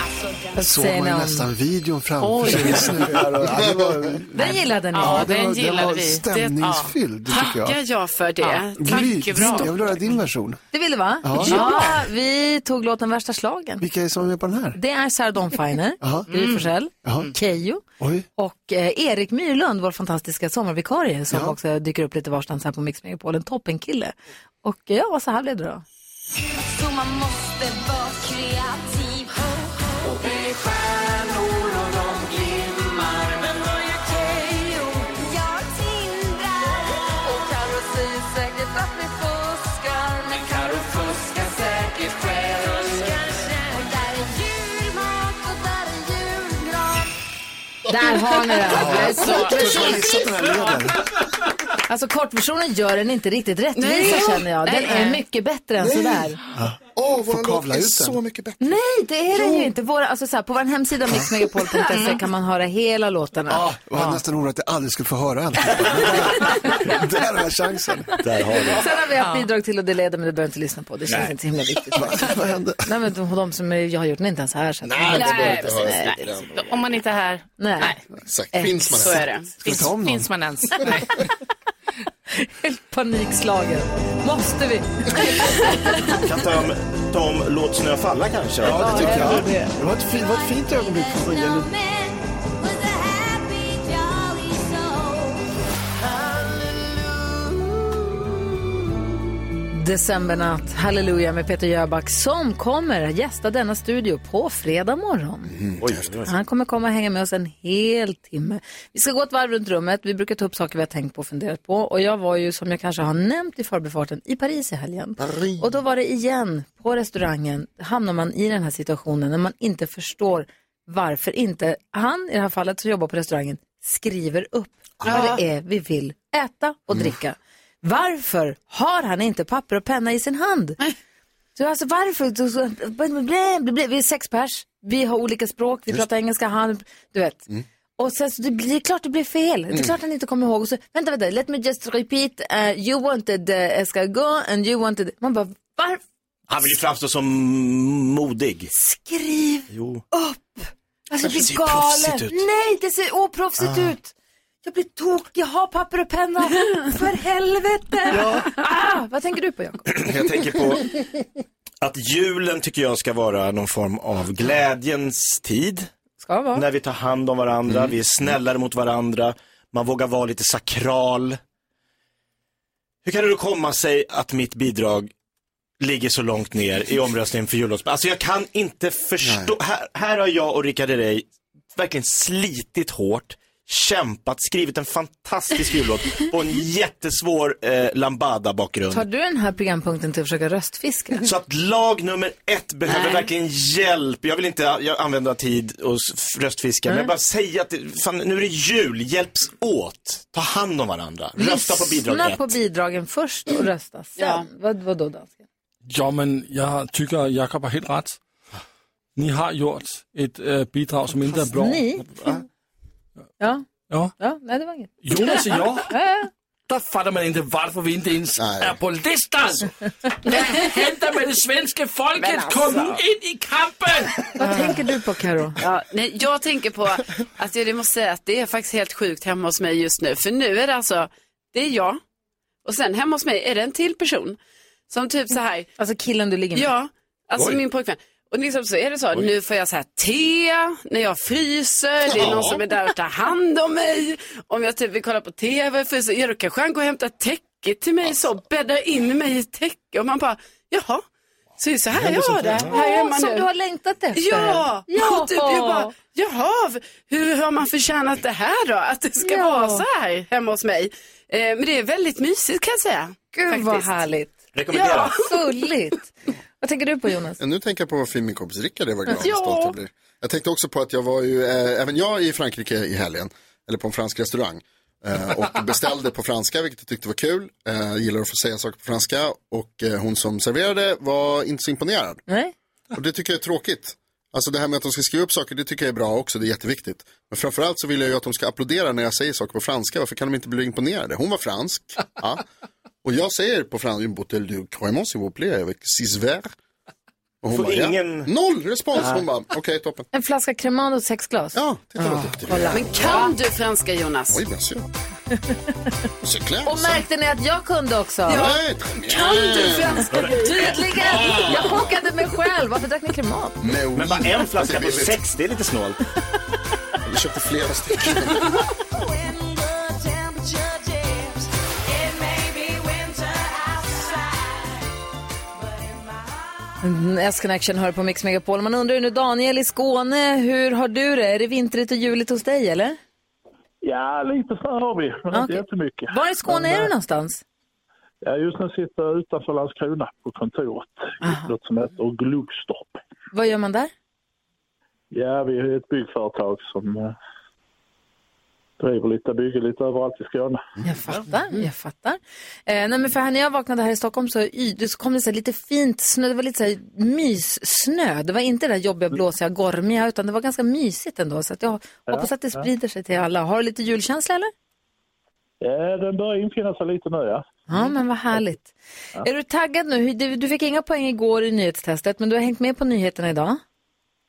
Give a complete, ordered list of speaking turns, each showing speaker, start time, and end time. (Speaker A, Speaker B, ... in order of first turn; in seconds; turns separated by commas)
Speaker A: 0.6-1.5, Speaker B: 0.6-7.8, Speaker C: 2.2-3.2, Speaker A: 2.5-2.8, Speaker D: 3.4-4.2, Speaker A: 4.3-5.3, Speaker C: 4.5-6.9, Speaker E: 7.3-9.7, Speaker C: 8.4-10.2, Speaker B: 8.8-10.6, Speaker A: 10.7-13.8, Speaker B: 11.2-11.6, Speaker E: 11.4-12.0, Speaker C: 11.5-11.9, Speaker B: 13.8-14.8, Speaker A: 14.8-17.8, Speaker B: 16.0-16.3, Speaker C: 16.3-16.7, Speaker B: 17.0-17.3, Speaker B: 18.0-18.3, Speaker A: 18.4-25.8, Speaker B: 21.3-21.6, Speaker F: 26.5-37.4, Speaker A: 37.2-40.4, Speaker F: 40.2-47.1, Speaker A: 47.9-50.2, Speaker B: 48.6-51.0, Speaker F: 50.0-50.4, Speaker A: 51.9-56.4, Speaker E: 53.8-55.2, Speaker B: 55.8-58.2, Speaker D: 57.0-58.8, Speaker A: 58.6-63.6, Speaker B: 59.4-59.7, Speaker C: 61.8-62.2, Speaker B: 63.5-68.2, Speaker C: 63.9-64.2, Speaker G: 68.2-68.9, Speaker A: 68.7-72.3, Speaker C: 69.2-69.5, Speaker B: 71.9-72.9, Speaker A: 72.8-76.7, Speaker D: 74.8-76.8, Speaker E: 75.1-76.2, Speaker C: 76.5-77.9, Speaker A: 77.6-77.9, Speaker D: 78.2-79.3, Speaker A: 78.5-79.3, Speaker E: 79.0-79.5, Speaker B: 79.6-80.5, Speaker C: 79.6-81.2, Speaker A: 80.8-81.1, Speaker A: 82.4-86.0, Speaker G: 86.1-89.5, Speaker B: 88.6-91.7, Speaker A: 88.9-89.7, Speaker F: 89.9-95.5, Speaker F: 96.0-98.0, Speaker A: 99.7-105.5, Speaker D: 105.5-106.3, Speaker G: 105.8-106.3, Speaker A: 106.3-130.8, Speaker D: 115.2-115.6, Speaker D: 125.0-125.3, Speaker E: 125.0-125.4, Speaker A: 131.6-146.0, Speaker G: 146.5-148.7, Speaker A: 148.8-159.8, Speaker G: 149.7-150.0, Speaker G: 151.2-152.4, Speaker B: 158.1-158.5, Speaker G: 159.9-161.1, Speaker G: 161.8-165.9, Speaker A: 166.2-166.6, Speaker G: 166.5-171.4, Speaker D: 167.7-167.9, Speaker G: 173.1-175.1, Speaker G: 175.8-189.1, Speaker D: 179.2-179.5, Speaker A: 188.9-191.2, Speaker G: 191.2-202.5, Speaker E: 192.9-193.3, Speaker A: 201.4-205.4, Speaker E: 204.2-204.5, Speaker H: 205.9-208.2, Speaker H: 209.2-211.9, Speaker A: 211.5-212.1, Speaker A: 214.2-216.3, Speaker H: 215.0-215.9, Speaker H: 216.7-224.8, Speaker D: 218.4-218.8, Speaker E: 222.2-223.0, Speaker A: 224.4-225.6, Speaker E: 225.6-232.0, Speaker E: 232.6-234.4, Speaker E: 234.9-235.7, Speaker A: 235.8-236.7, Speaker E: 236.5-251.0, Speaker D: 242.1-242.6, Speaker G: 242.1-242.5, Speaker E: 251.6-253.5, Speaker H: 252.0-252.6, Speaker A: 252.6-255.9, Speaker E: 254.1-263.9, Speaker A: 259.2-259.8, Speaker A: 263.3-264.4, Speaker G: 264.5-265.2, Speaker E: 264.7-265.3, Speaker A: 265.1-267.4, Speaker D: 267.4-282.2, Speaker E: 269.2-269.7, Speaker A: 282.3-282.5, Speaker D: 282.9-292.4, Speaker D: 293.0-296.5, Speaker D: 297.4-300.1, Speaker G: 297.5-298.3, Speaker G: 298.9-299.2, Speaker A: 300.1-303.3, Speaker D: 301.6-303.3, Speaker E: 302.7-304.4, Speaker D: 304.3-304.9, Speaker D: 306.2-307.0, Speaker A: 306.6-308.5, Speaker D: 308.3-310.2, Speaker E: 308.3-308.6, Speaker E: 309.1-310.8, Speaker A: 310.2-313.6, Speaker D: 311.3-311.7, Speaker D: 313.6-315.2, Speaker G: 313.9-316.0, Speaker D: 317.1-318.4, Speaker F: 318.9-324.7, Speaker F: 325.7-326.3, Speaker A: 326.8-333.0, Speaker I: 333.8-336.9, Speaker A: 335.3-337.4, Speaker I: 338.2-343.0, Speaker A: 341.2-341.5, Speaker A: 343.3-343.9, Speaker I: 345.1-347.2, Speaker I: 348.8-350.6, Speaker A: 350.8-364.5, Speaker I: 362.1-362.7, Speaker I: 365.6-367.5, Speaker A: 367.7-373.6